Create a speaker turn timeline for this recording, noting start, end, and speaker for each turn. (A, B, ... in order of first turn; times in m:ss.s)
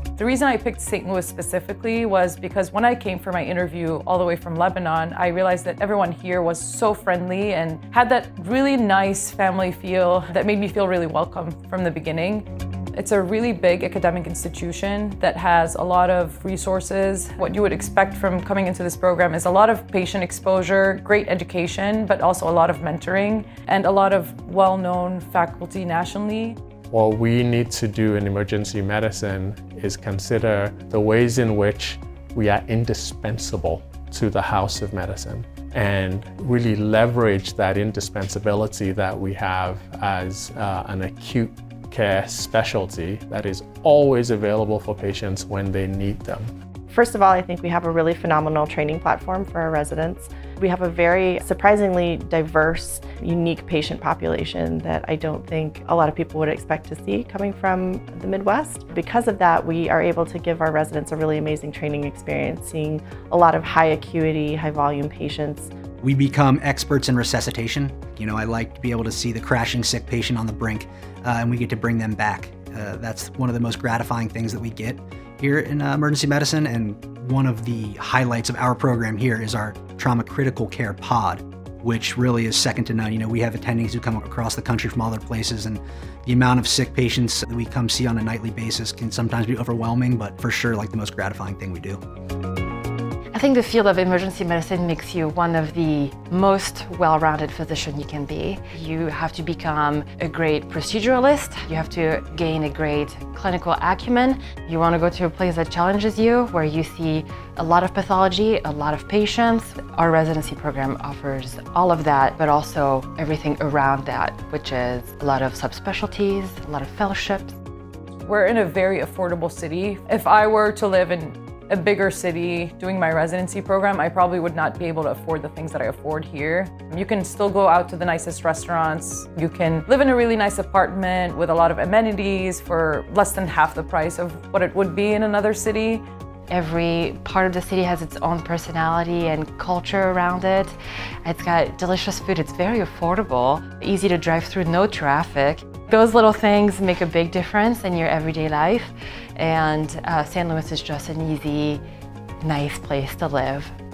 0:00.2-0:26.6 A
0:26.9-0:46.4 B
0:46.9-1:05.7 C
1:06.0-1:32.0 D
1:33.3-1:57.6 E
1:58.2-2:16.0 A
2:16.5-2:31.8 E
2:32.4-2:33.7 E